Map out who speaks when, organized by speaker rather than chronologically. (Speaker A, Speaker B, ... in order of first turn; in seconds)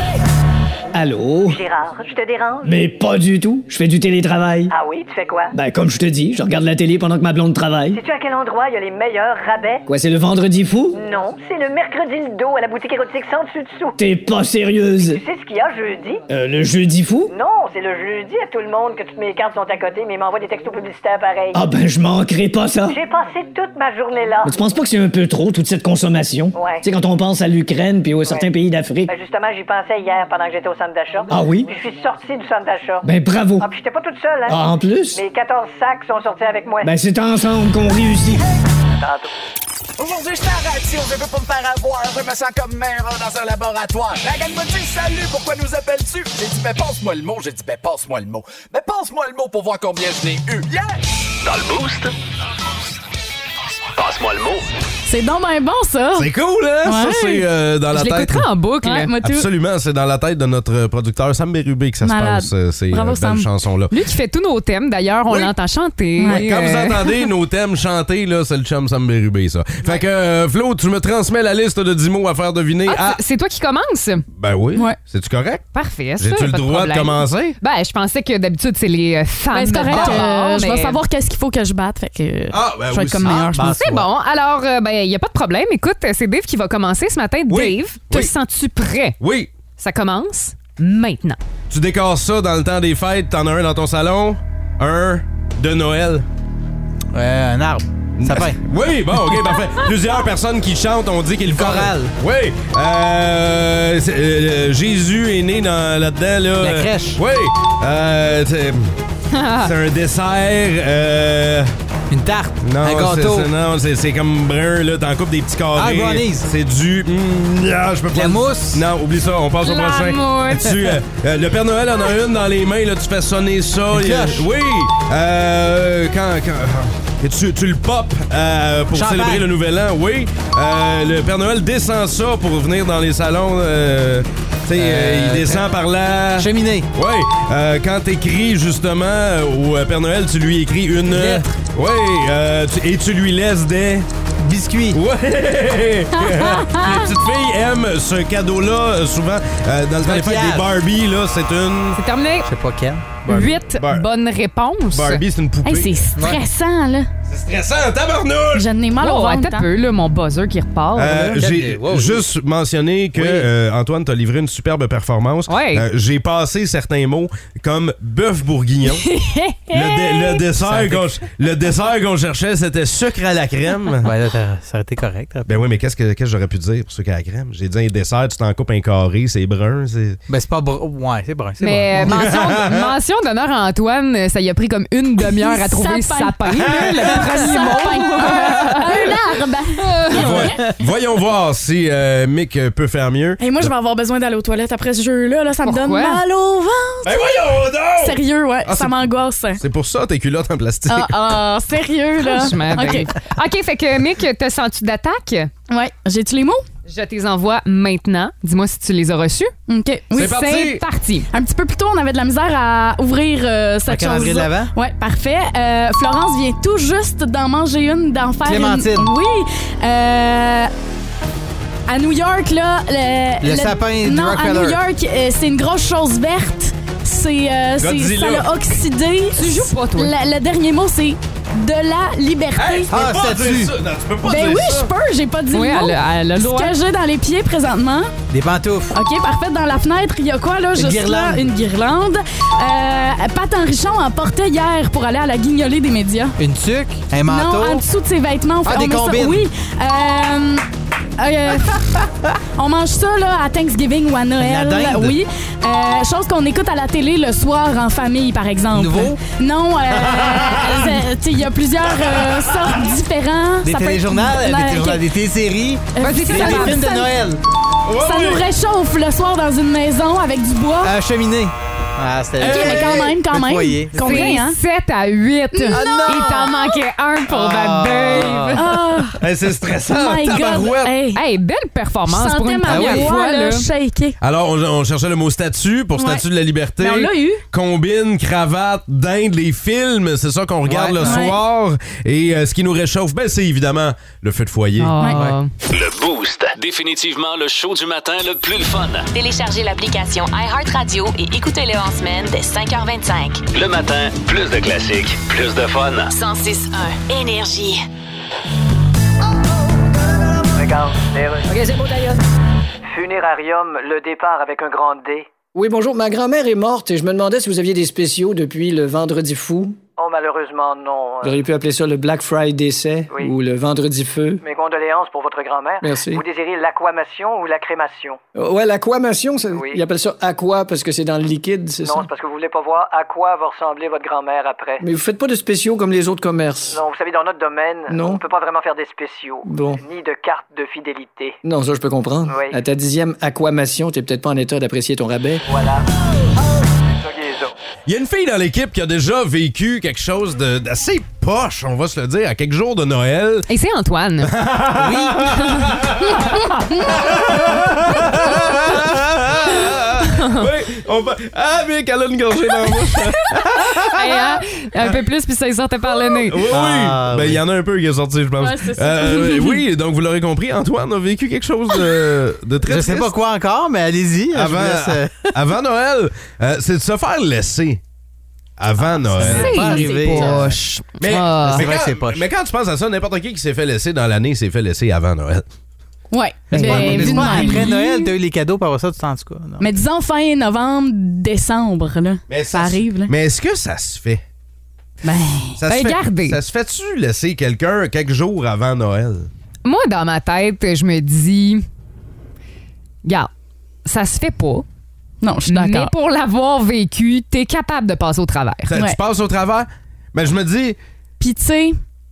Speaker A: 0.9-1.6, 2.6-4.7, 5.5-8.0, 9.9-11.0, 14.0-15.2, 16.3-17.3, 21.5-23.0, 24.4-29.1, 31.3-31.7, 33.0-33.7, 34.5-35.2, 36.8-38.4
Speaker B: 1.5-2.7, 4.7-5.5, 7.9-9.8, 10.9-13.9, 15.0-16.2, 17.3-21.7, 22.9-24.7, 26.5-26.9, 28.2-28.5, 29.1-36.9, 39.0-39.3
Speaker C: 40.0-51.0
Speaker D: 51.4-52.1, 53.9-54.7, 295.7-299.1, 303.5-306.1
Speaker E: 55.0-56.3, 56.8-57.4, 58.8-59.5, 62.0-63.5, 66.2-66.5, 79.5-83.7, 146.4-146.8, 155.6-157.1, 158.5-159.7, 185.2-190.4, 193.4-197.4, 197.9-199.6, 200.9-203.1, 205.7-206.6, 209.7-210.4, 211.3-220.7, 221.9-232.9, 234.2-238.1, 238.9-246.4, 247.2-250.7, 251.2-265.1, 265.9-267.1, 268.0-270.9, 272.4-274.6, 275.5-276.1, 278.5-279.2, 279.9-281.2, 282.1-284.1, 285.9-286.2, 286.8-287.4, 291.0-291.4, 295.0-295.2, 356.2-356.8, 368.4-369.6, 379.5-380.5, 386.1-388.1, 389.6-393.1, 395.0-395.6, 405.2-405.9, 411.2-411.8
Speaker F: 56.1-58.5, 59.2-63.9, 66.3-73.2, 74.3-75.7, 76.2-77.5, 79.9-80.2, 82.5-83.6, 87.5-88.3, 89.2-89.5, 91.7-96.2, 98.2-108.9, 109.6-111.7, 112.6-144.1, 144.9-152.0, 153.7-154.1, 154.9-156.1, 157.3-158.7, 160.9-169.1, 169.7-174.1, 175.4-180.2, 181.9-182.9, 190.1-193.7, 197.0-199.0, 199.6-201.3, 210.1-210.8, 227.8-228.5, 232.5-234.9, 267.9-268.4, 279.2-280.9, 284.2-295.0, 347.9-353.4, 354.2-364.4, 366.2-373.1, 374.3-377.8, 378.6-379.7, 381.0-385.4, 386.6-386.9, 392.3-394.2, 395.6-399.3, 408.7-410.8
Speaker G: 57.9-59.1, 63.9-67.3, 72.8-74.2, 75.7-81.0, 83.6-89.2, 89.8-91.4, 109.3-109.7, 119.6-121.0, 151.9-152.5, 153.2-155.2, 159.0-161.4, 165.5-165.8, 168.9-170.4, 181.6-189.2, 189.8-190.6, 195.6-196.2, 202.2-205.5, 206.9-209.5, 210.1-211.3, 229.3-230.1, 235.5-236.8, 266.0-266.9, 272.4-272.8, 273.9-278.8, 281.1-283.7, 294.8-295.5, 353.5-354.3, 360.0-360.4, 363.9-366.5, 379.2-381.7, 386.9-387.6, 395.6-396.4, 399.6-401.6, 403.8-404.6, 405.5-408.7
Speaker H: 83.5-84.1, 97.1-98.6, 101.5-102.1, 106.6-107.2, 112.1-113.5, 115.7-116.5, 118.1-118.8, 123.9-124.5, 128.9-129.5, 134.7-135.7, 136.4-136.9, 141.0-141.5, 144.4-145.0, 150.0-150.7, 152.4-153.5, 161.4-162.3, 163.1-163.5, 170.5-171.2, 174.0-175.5, 180.3-182.2, 213.9-214.7, 218.4-219.1, 223.4-224.8, 232.9-233.7, 238.3-238.9, 240.7-241.5, 246.4-247.8, 248.6-249.5, 254.4-255.2, 258.7-259.2, 259.9-260.9, 263.6-267.4, 270.8-274.4, 275.7-276.5, 277.3-278.5, 282.7-283.0, 290.6-291.2, 354.7-355.3, 366.5-367.4, 372.6-375.3, 379.1-380.6, 381.2-382.2, 386.5-389.7
Speaker I: 299.1-303.4, 306.1-307.8
Speaker J: 310.5-311.7, 312.9-315.3, 320.0-321.4, 324.4-328.2, 329.5-329.8, 331.8-334.8, 336.7-341.4, 342.3-342.6, 345.5-345.8, 346.9-347.5
Speaker K: 315.5-319.8, 321.2-324.4, 325.8-326.2, 328.4-332.1, 334.8-336.8, 337.9-338.2, 339.4-339.8, 341.4-345.4